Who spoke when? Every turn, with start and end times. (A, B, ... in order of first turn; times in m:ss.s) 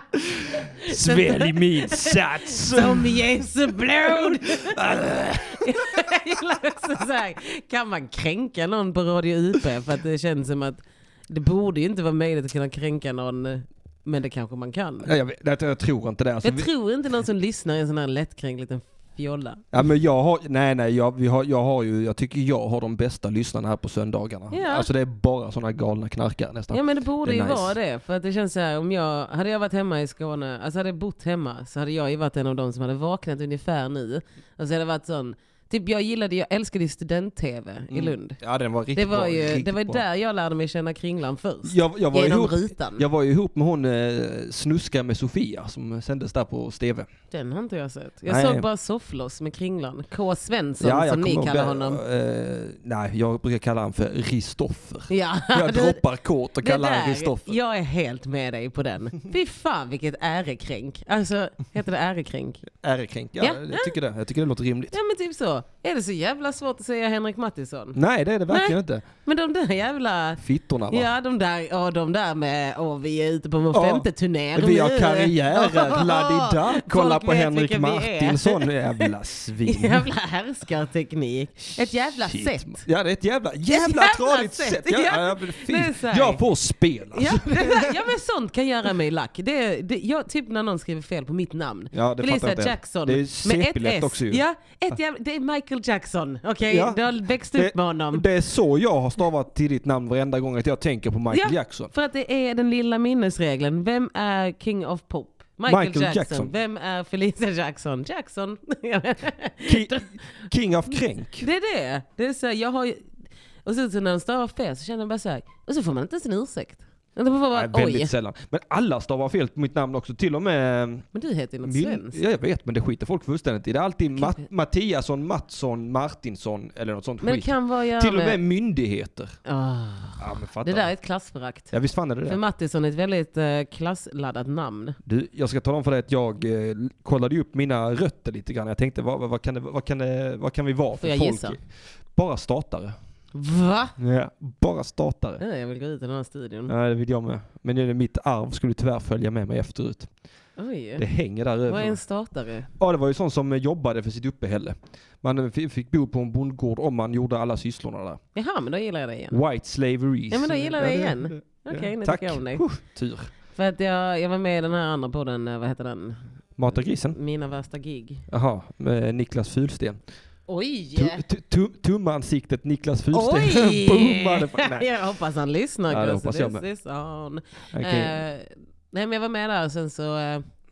0:00.2-0:03.2 A
0:00.8-0:15.1 B
0:04.1-0:05.8 A
0:15.0-0:16.7 A
0:16.4-0:19.7 B
0:19.7-0:27.7 A
0:24.5-0:24.9 B
0:26.7-0:38.4 B
0:37.9-0:40.0 A
0:38.9-0:43.0 B
0:41.6-0:47.1 A
0:47.3-0:52.0 B
0:48.3-0:48.6 A
0:50.8-0:57.6 A
0:55.1-0:56.0 B
0:56.6-1:02.7 B
1:02.8-1:05.0 A
1:03.4-1:03.9 B
1:04.9-1:08.0 B
1:07.9-1:09.0 A
1:08.5-1:19.1 B
1:10.4-1:11.1 A
1:13.7-1:20.0 A
1:19.6-1:22.8 B
1:21.8-1:28.0 A
1:23.7-1:26.4 B
1:27.1-1:38.2 B
1:31.9-1:34.4 A
1:36.7-1:37.0 A
1:37.5-1:41.9 A
1:41.3-1:50.1 B
1:45.7-1:46.5 A
1:49.6-1:51.4 A
1:50.9-1:53.1 B
1:53.6-1:58.1 B
1:57.5-2:01.0 A
2:01.1-2:02.2 B
2:01.6-2:09.3 A
2:04.2-2:04.4 B
2:07.2-2:08.4 B
2:09.4-2:11.7 B
2:10.2-2:10.9 A
2:11.7-2:12.4 A
2:12.2-2:15.0 B
2:15.0-2:21.6 A
2:21.0-2:21.6 B
2:22.1-2:23.0 A
2:23.3-2:23.9 B
2:24.0-2:25.4 A
2:25.4-2:26.7 B
2:26.7-2:30.1 A
2:30.6-2:31.0 B
2:31.0-2:32.0 A
2:31.7-2:32.7 B
2:32.8-2:38.2 A
2:38.3-2:39.4 B
2:39.3-2:43.3 A
2:40.3-2:42.6 B
2:43.5-2:46.2 B
2:46.6-2:47.2 A
2:46.7-2:48.2 B
2:48.3-2:50.0 A
2:50.5-2:51.2 B
2:51.0-2:54.9 A
2:53.1-3:00.4 B
2:55.9-2:56.6 A
2:57.7-2:58.2 A